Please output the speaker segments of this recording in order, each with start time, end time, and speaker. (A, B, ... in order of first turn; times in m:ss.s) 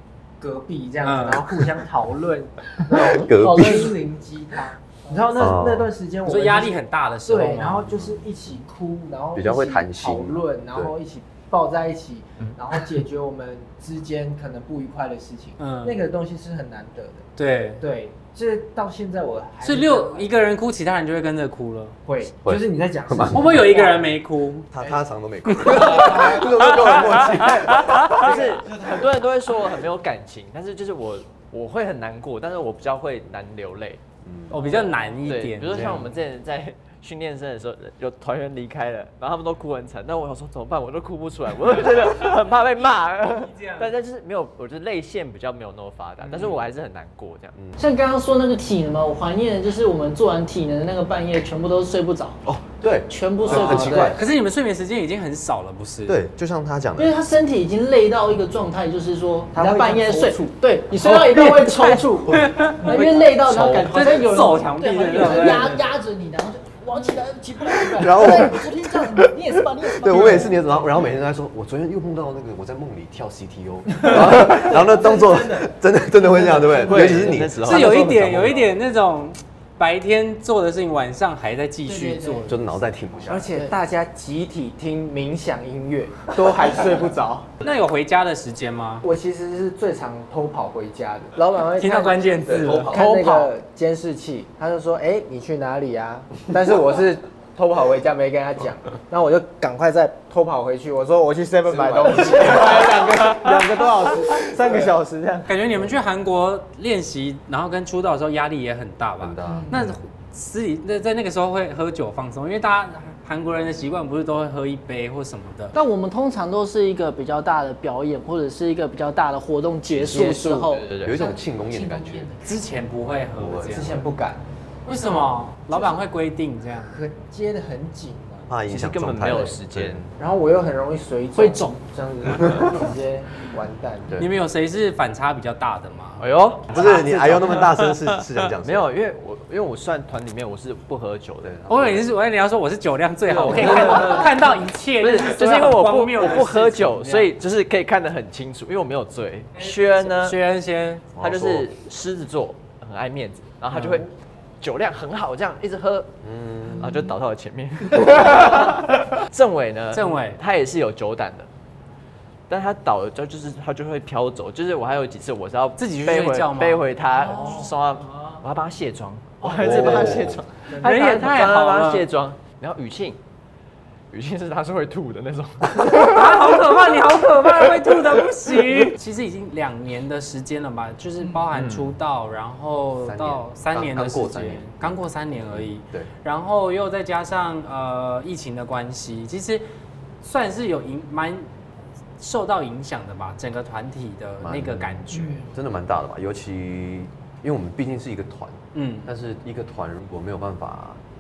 0:00.4-0:17.3 A
0:01.0-0:01.4 B
0:02.9-0:04.0 C
0:05.4-0:05.9 C
0:06.3-0:08.0 B
0:09.4-0:10.9 C
0:15.6-0:16.0 B
0:17.4-0:17.8 B
0:17.8-0:20.4 A
0:19.6-0:22.0 B
0:22.0-0:24.1 A
0:22.4-0:23.5 C
0:23.3-0:24.7 B
0:24.7-0:28.6 C
0:25.6-0:27.1 B
0:25.7-0:26.8 A
0:27.5-0:34.0 D
0:34.2-0:34.6 C
0:34.5-0:36.1 B
0:34.6-0:47.6 D
0:43.2-0:43.9 B
0:47.6-0:47.8 C
0:47.8-0:52.5 E
0:52.4-0:54.2 C
0:53.1-0:54.2 E
0:53.4-0:56.2 B
0:56.1-0:57.2 C
0:57.0-1:10.8 E
0:59.6-1:00.4 A
1:02.3-1:02.8 B
1:03.4-1:04.0 D
1:03.9-1:05.8 B
1:07.8-1:09.3 C
1:09.8-1:18.6 C
1:14.0-1:15.7 A
1:16.7-1:18.7 D
1:17.6-1:22.6 B
1:21.9-1:22.5 E
1:22.5-1:23.5 C
1:23.3-1:27.5 A
1:27.6-1:29.0 B
1:29.0-1:32.2 A
1:31.8-1:33.5 B
1:32.5-1:33.1 C
1:32.9-1:45.9 A
1:41.6-1:43.0 C
1:45.5-1:55.8 B
1:49.2-1:49.8 C
1:55.7-2:02.4 E
1:59.9-2:02.3 C
2:00.9-2:01.3 D
2:02.4-2:04.0 B
2:03.4-2:03.9 C
2:03.7-2:04.4 A
2:04.8-2:07.0 B
2:05.7-2:06.0 A
2:06.8-2:08.5 A
2:08.5-2:10.1 C
2:08.7-2:10.0 D
2:10.2-2:14.2 A
2:11.3-2:11.8 E
2:14.2-2:17.1 B
2:16.2-2:21.7 D
2:16.7-2:18.9 C
2:21.4-2:22.1 C
2:21.7-2:27.3 B
2:23.3-2:24.1 C
2:23.4-2:24.3 D
2:25.0-2:30.4 D
2:30.1-2:31.0 B
2:31.2-2:31.7 C
2:31.2-2:34.1 D
2:34.6-2:36.1 D
2:36.2-2:37.0 C
2:36.6-2:41.5 D
2:39.9-2:40.4 B
2:42.5-2:53.2 D
2:45.8-2:47.7 B
2:49.5-2:50.4 C
2:50.7-2:51.3 A
2:50.8-2:52.1 B
2:54.1-2:56.5 D
2:55.8-3:09.6 B
3:01.5-3:01.9 D
3:03.0-3:06.1 C
3:10.2-3:11.5 B
3:12.2-3:15.5 B
3:14.4-3:21.0 C
3:15.2-3:15.5 A
3:18.7-3:19.1 B